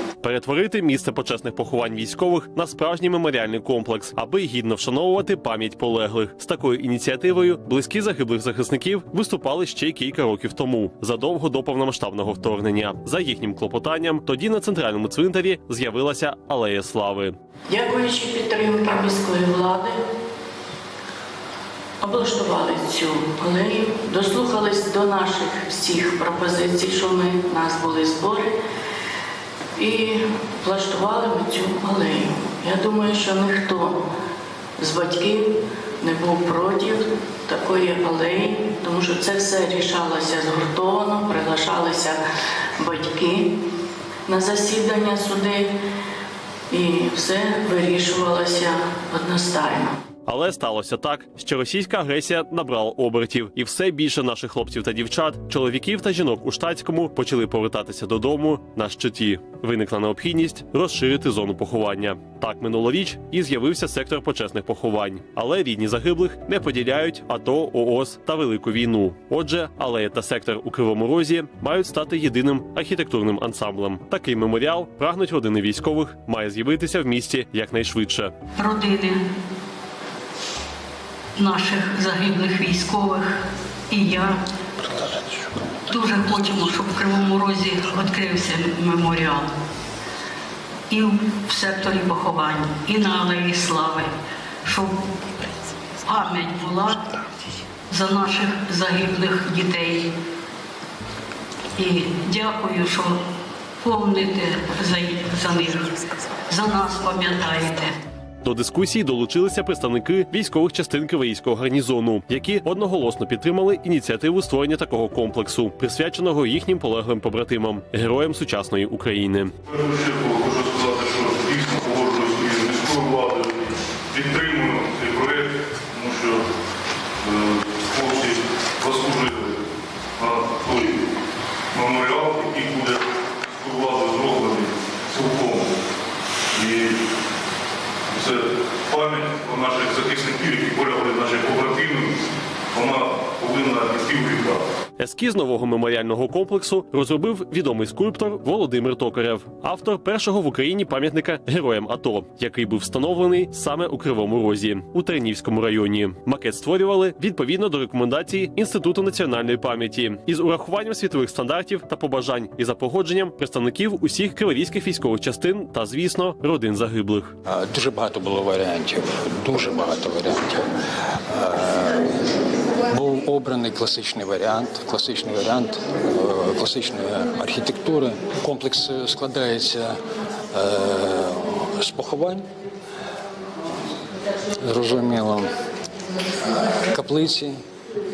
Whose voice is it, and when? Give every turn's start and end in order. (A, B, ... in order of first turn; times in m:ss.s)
0:00.2-0:17.4 A
0:17.7-0:20.0 B
0:22.0-0:28.6 B
0:29.8-0:34.0 B
0:34.8-0:42.2 B
0:42.8-0:43.5 B
0:44.3-0:45.7 B
0:46.7-0:50.0 B
0:50.3-1:18.3 A
1:18.6-1:19.2 C
1:21.4-1:24.4 C
1:25.9-1:29.5 C
1:30.9-1:34.1 C
1:34.6-1:35.0 C
1:36.0-1:37.1 C
1:37.9-1:40.1 C
1:41.8-1:43.2 C
1:43.8-1:45.9 C
1:46.5-1:47.9 C
1:48.4-1:59.5 A
1:59.7-2:06.4 D
2:07.2-2:09.6 D
2:10.2-2:11.0 D
2:11.7-2:15.8 D
2:16.5-2:17.0 D
2:18.1-2:22.2 D
2:22.7-2:24.6 D
2:25.0-2:47.3 A
2:47.4-2:50.6 E
2:51.3-2:52.1 E
2:52.9-3:00.0 E
3:00.5-3:02.5 E
3:04.6-3:05.5 E
3:06.9-3:07.6 E